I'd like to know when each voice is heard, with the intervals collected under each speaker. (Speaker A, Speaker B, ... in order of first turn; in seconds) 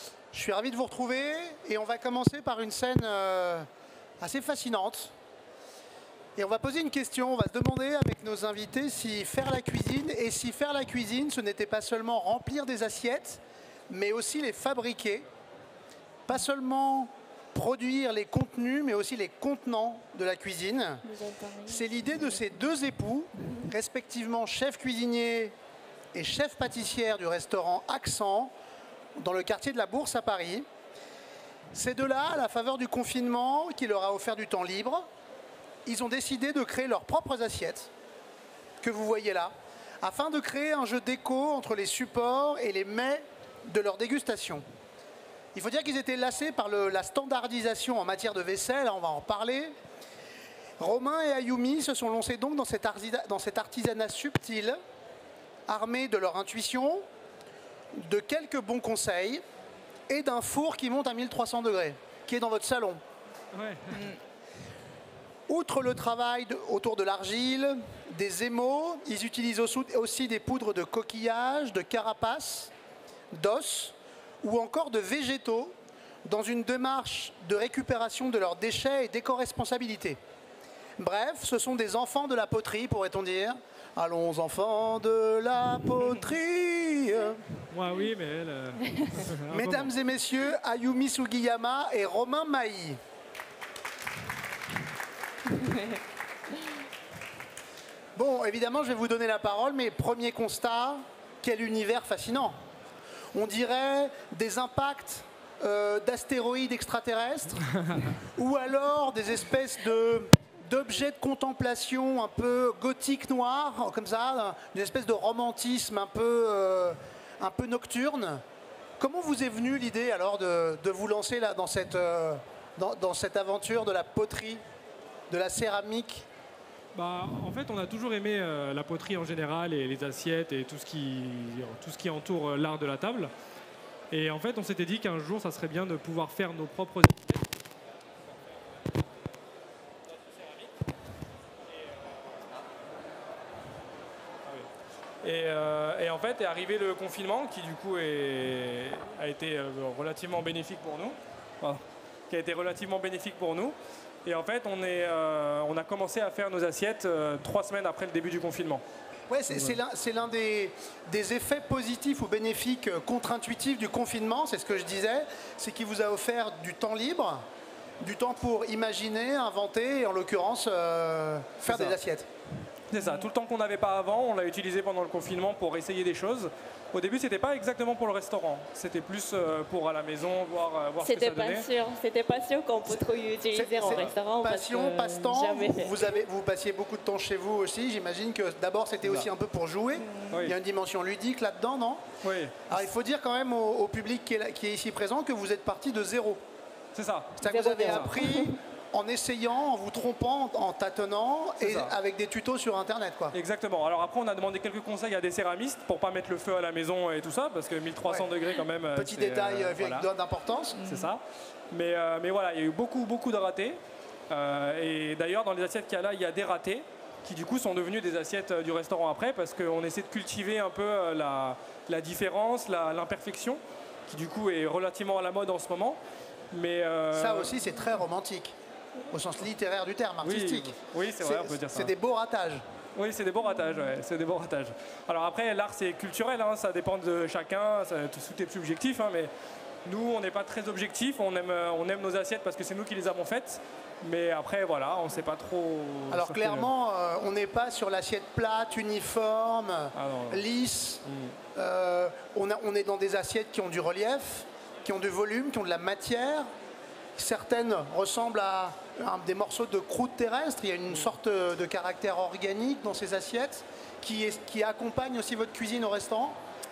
Speaker A: 0.3-3.7, 4.2-5.1, 6.3-15.3, 16.3-21.0, 21.6-25.5, 26.1-28.5, 29.1-30.6, 31.7-35.1, 35.9-37.9, 38.8-44.6, 45.5-49.7, 50.8-54.8, 55.7-57.0, 57.9-59.4, 60.1-63.0, 65.5-72.7, 73.3-80.2, 81.0-87.4, 89.5-93.0, 98.1-102.6, 103.3-118.4, 119.0-124.6, 125.3-126.2, 159.3-167.4, 168.0-172.3, 183.5-192.1, 192.7-196.4, 197.4-203.3, 208.0-208.3, 208.9-210.8, 227.1-228.5, 229.1-232.6, 246.1-251.0, 251.5-256.5, 257.1-266.4
Speaker B: 21.0-22.7, 63.9-64.2, 88.8-89.3, 95.5-96.0, 173.0-173.2, 181.0-186.2, 190.0-190.5, 197.4-198.6, 210.7-211.1
Speaker C: 63.5-64.1, 87.7-89.9, 126.9-133.3, 134.1-137.5, 140.1-140.8, 141.7-142.4, 145.2-158.8, 159.5-159.8, 171.6-172.0, 172.9-181.7, 183.8-184.1, 189.0-189.3, 190.3-190.6, 192.2-192.9, 196.9-198.2, 201.6-201.9, 203.3-210.1, 210.8-213.8, 214.3-226.0, 226.5-227.6, 230.2-231.9, 232.9-239.3, 239.8-246.7, 249.9-250.4, 251.0-251.4